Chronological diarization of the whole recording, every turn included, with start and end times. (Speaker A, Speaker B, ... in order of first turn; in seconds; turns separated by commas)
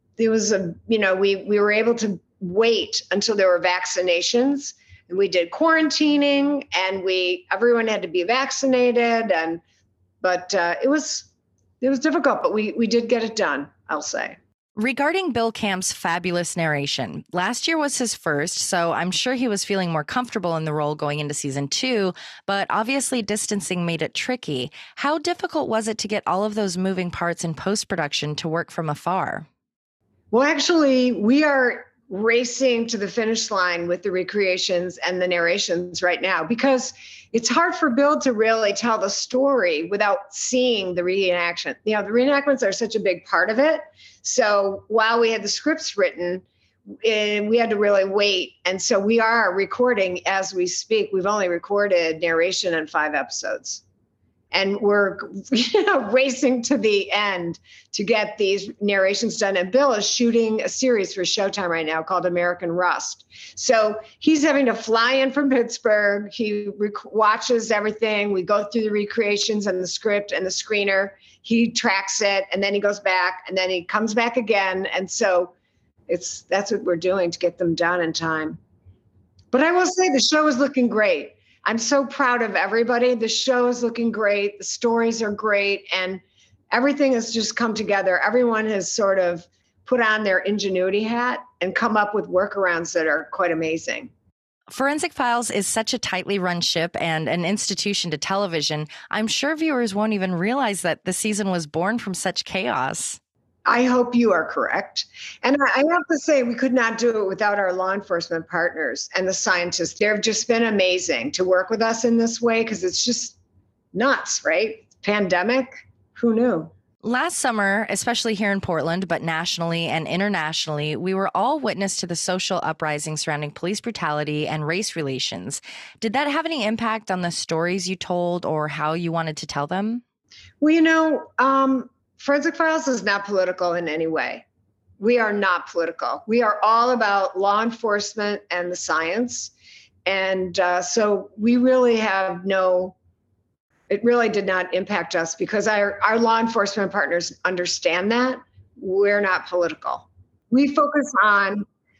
Speaker A: 0.2-9.6, Speaker A: 10.2-11.3, Speaker A: 11.8-14.3, Speaker B: 14.8-29.5, Speaker A: 30.3-53.8, Speaker A: 54.5-75.5, Speaker A: 76.1-78.6, Speaker A: 79.5-94.1, Speaker B: 94.7-103.2, Speaker A: 103.7-113.3, Speaker A: 113.9-116.7, Speaker B: 117.0-130.0, Speaker A: 130.6-134.4, Speaker A: 135.0-139.5, Speaker A: 140.1-142.9, Speaker A: 143.9-151.6